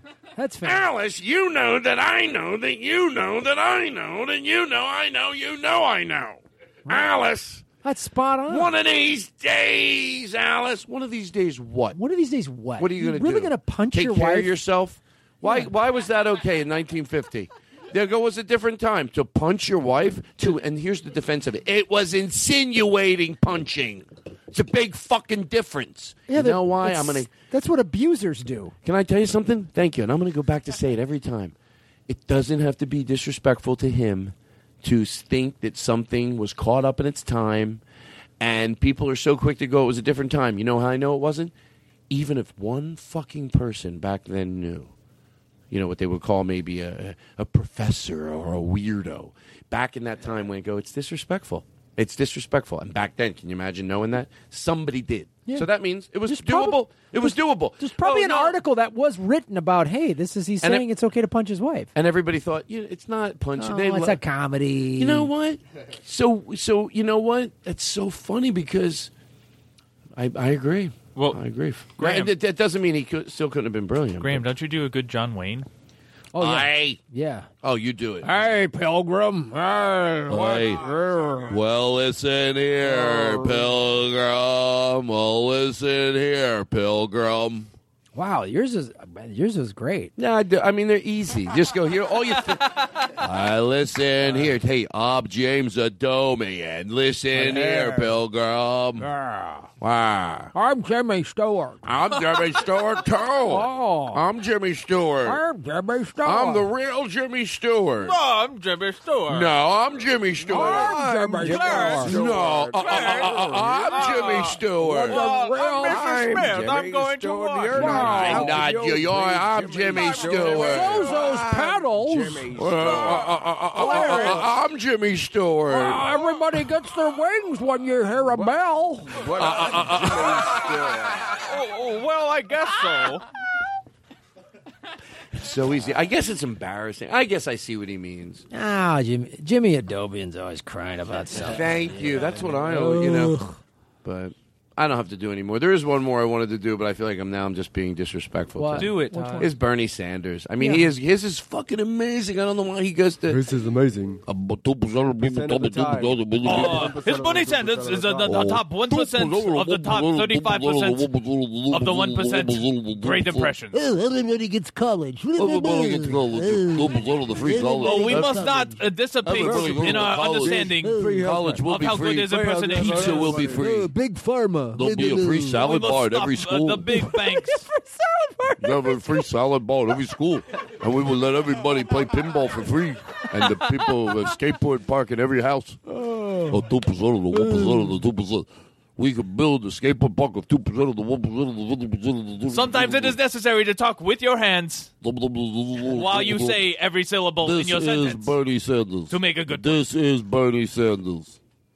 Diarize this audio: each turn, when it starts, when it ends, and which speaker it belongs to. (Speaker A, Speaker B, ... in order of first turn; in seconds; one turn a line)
Speaker A: 0.3-0.8
Speaker B: 0.6-7.7
Speaker A: 7.8-8.7
Speaker B: 8.5-12.0
Speaker A: 11.9-14.6
Speaker B: 12.8-27.3
Speaker A: 15.4-15.7
Speaker A: 26.3-28.7
Speaker B: 28.8-31.5
Speaker B: 32.1-37.8
Speaker B: 38.4-41.5
Speaker B: 42.1-44.9
Speaker B: 45.7-58.6
Speaker A: 55.5-61.9
Speaker B: 61.9-64.2
Speaker A: 63.6-65.3
Speaker B: 65.0-69.1
Speaker B: 70.1-74.5
Speaker C: 71.1-71.4
Speaker C: 72.0-72.3
Speaker C: 74.2-75.7
Speaker A: 76.3-77.5
Speaker B: 76.4-77.0
Speaker B: 77.6-78.4
Speaker A: 78.2-81.5
Speaker B: 80.3-87.7
Speaker A: 82.8-83.7
Speaker A: 88.1-90.1
Speaker B: 90.2-99.1
Speaker A: 97.3-98.1
Speaker A: 99.0-99.7
Speaker B: 99.8-100.5
Speaker A: 100.5-101.8
Speaker B: 101.8-105.4
Speaker A: 103.4-104.2
Speaker A: 105.2-106.7
Speaker B: 106.2-108.2
Speaker C: 108.0-109.5
Speaker B: 109.3-116.5
Speaker D: 110.4-110.8
Speaker A: 110.5-112.2
Speaker D: 111.5-114.2
Speaker C: 111.6-111.9
Speaker C: 112.7-113.2
Speaker C: 113.9-114.6
Speaker A: 114.8-116.3
Speaker C: 115.1-118.2
Speaker D: 115.9-124.4
Speaker B: 117.7-121.2
Speaker A: 117.8-118.5
Speaker C: 120.0-120.4
Speaker A: 120.6-122.5
Speaker B: 122.5-126.1
Speaker A: 123.8-124.3
Speaker A: 125.7-129.2
Speaker D: 129.1-131.1
Speaker B: 129.3-131.3
Speaker C: 131.3-133.2
Speaker B: 135.3-138.4
Speaker A: 138.5-143.6
Speaker B: 141.3-143.4
Speaker B: 144.0-153.4
Speaker A: 148.6-149.5
Speaker C: 148.7-149.5
Speaker A: 150.6-150.9
Speaker D: 153.3-154.2
Speaker B: 154.2-156.9
Speaker D: 155.0-158.5
Speaker C: 156.4-161.1
Speaker B: 158.2-163.5
Speaker C: 161.7-163.9
Speaker A: 163.7-168.7
Speaker B: 165.3-168.7
Speaker C: 167.8-171.0
Speaker B: 169.2-173.9
Speaker A: 169.5-169.8
Speaker A: 170.7-171.6
Speaker C: 171.6-173.5
Speaker D: 172.3-173.6
Speaker A: 173.4-175.7
Speaker B: 174.7-177.0
Speaker C: 175.6-177.7
Speaker A: 176.9-179.1
Speaker B: 178.6-185.8
Speaker B: 186.5-193.2
Speaker C: 192.5-194.9
Speaker B: 195.0-196.6
Speaker C: 195.8-198.3
Speaker B: 197.4-201.4
Speaker C: 199.1-199.8